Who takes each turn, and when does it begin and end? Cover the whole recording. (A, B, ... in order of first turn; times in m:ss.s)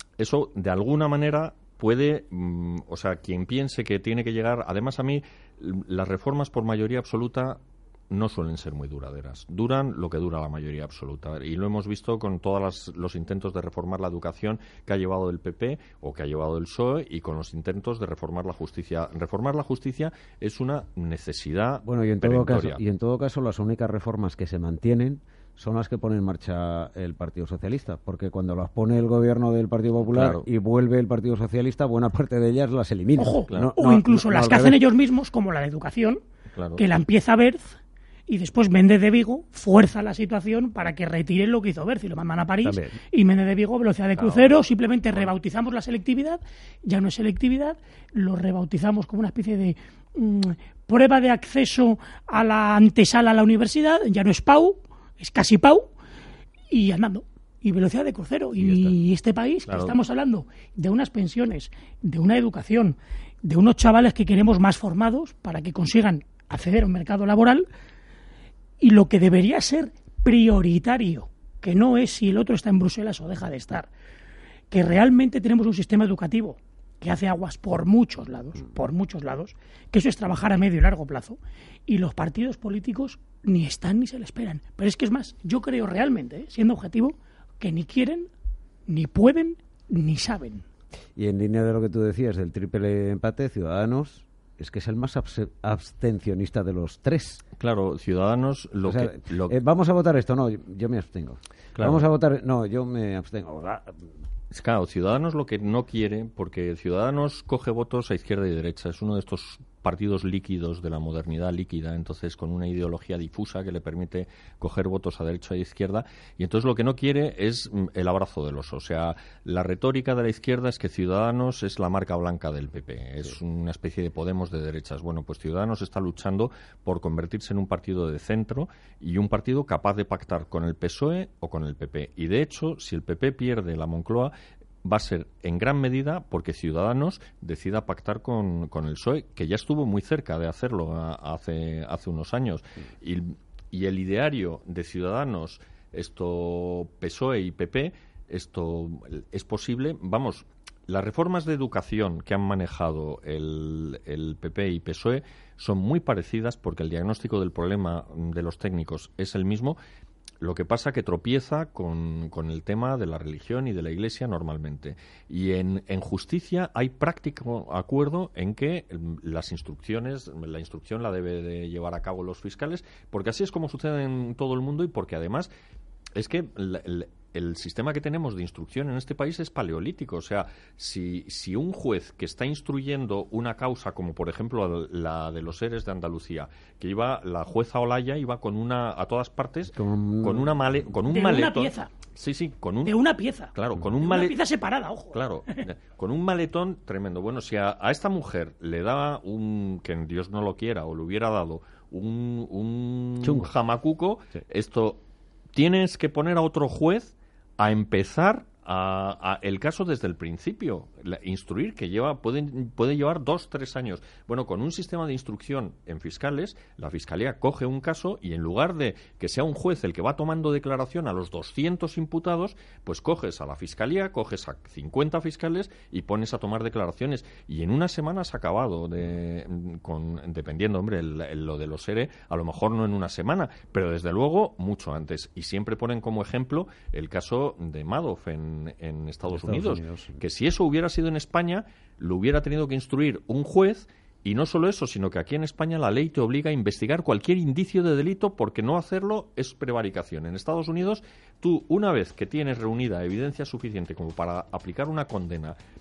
0:00.2-0:22.8 A
0:21.8-0:34.8 B
0:30.0-0:30.4 A
0:33.2-0:36.2 C
0:36.5-0:36.8 A
0:36.8-0:55.9 C
0:42.6-0:43.0 B
0:44.2-0:44.6 A
0:56.7-1:07.7 C
0:58.6-0:58.9 B
0:59.7-1:00.0 A
1:08.8-1:13.9 C
1:14.7-1:28.3 C
1:28.9-1:30.6 C
1:31.2-1:37.4 B
1:37.6-1:39.6 A
1:38.8-1:44.0 B
1:41.8-1:42.0 A
1:44.5-2:39.8 A
2:40.4-2:55.5 A
2:56.2-3:13.0 A
3:09.6-3:10.5 B
3:11.1-3:11.9 C
3:12.8-3:15.2 C
3:13.5-3:14.4 A
3:15.1-3:25.0 A
3:23.2-3:23.5 B
3:25.5-4:15.6 A
3:59.3-4:00.2 B